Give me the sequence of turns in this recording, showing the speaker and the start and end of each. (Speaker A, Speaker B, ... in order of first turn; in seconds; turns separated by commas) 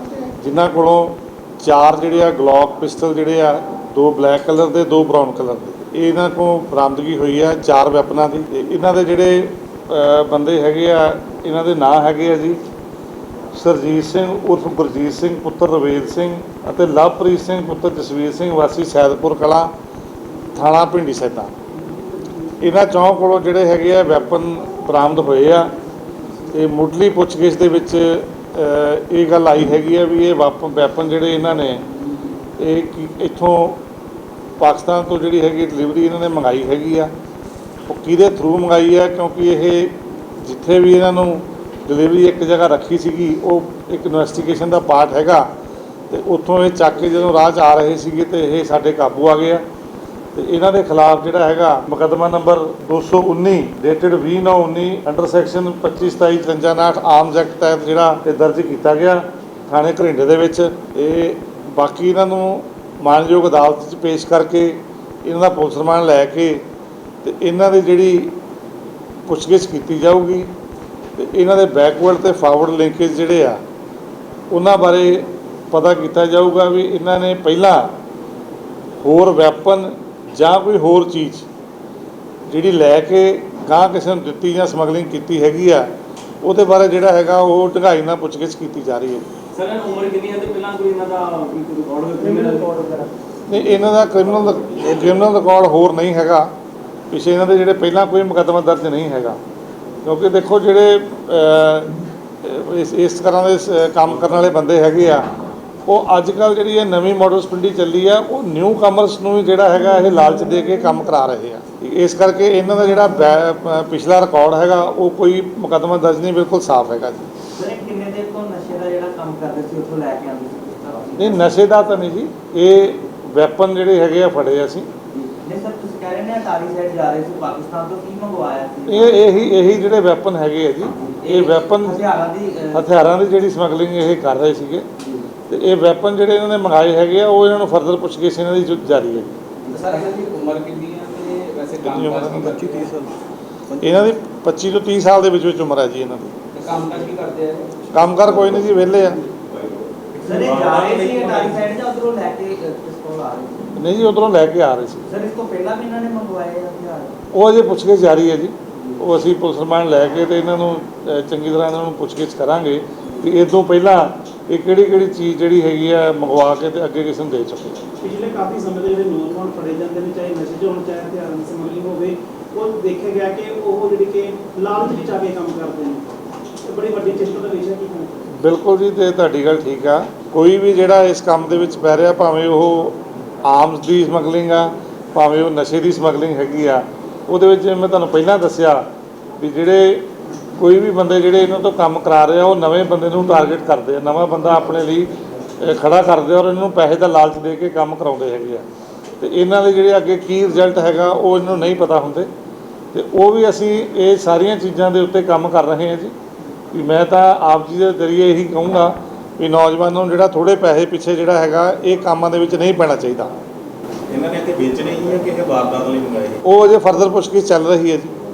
Speaker A: 0.4-12.6, Speaker A: 13.5-19.7, Speaker A: 20.5-21.5, Speaker A: 22.6-25.7, Speaker A: 26.5-31.9, Speaker A: 32.6-33.8, Speaker A: 34.6-37.1, Speaker A: 37.9-45.5, Speaker A: 46.1-49.6, Speaker A: 50.3-66.7, Speaker A: 67.2-68.4, Speaker A: 69.3-70.5, Speaker A: 71.2-73.6, Speaker A: 74.5-77.9, Speaker A: 79.0-81.5, Speaker A: 82.5-85.9, Speaker A: 86.4-89.3, Speaker B: 89.5-93.0, Speaker C: 92.4-92.9, Speaker A: 93.5-96.5, Speaker A: 97.1-99.4, Speaker A: 100.0-105.3, Speaker A: 105.9-117.3, Speaker C: 117.5-121.5, Speaker A: 121.2-124.9, Speaker C: 125.2-129.4, Speaker A: 128.9-132.1, Speaker C: 131.0-132.8, Speaker A: 132.7-134.9, Speaker A: 135.5-139.4, Speaker B: 139.7-142.9, Speaker A: 141.8-142.7, Speaker A: 143.8-146.3, Speaker B: 146.5-147.7, Speaker A: 147.9-149.2, Speaker D: 149.6-151.2, Speaker C: 150.2-153.7, Speaker B: 151.2-151.6, Speaker A: 153.8-155.1, Speaker C: 155.1-157.2, Speaker A: 157.3-167.8, Speaker E: 168.0-176.1, Speaker E: 176.7-178.3, Speaker A: 178.4-188.9, Speaker A: 189.4-198.7, Speaker A: 199.2-202.3, Speaker A: 202.9-206.2, Speaker A: 206.7-213.3, Speaker D: 214.1-216.4, Speaker A: 216.4-218.2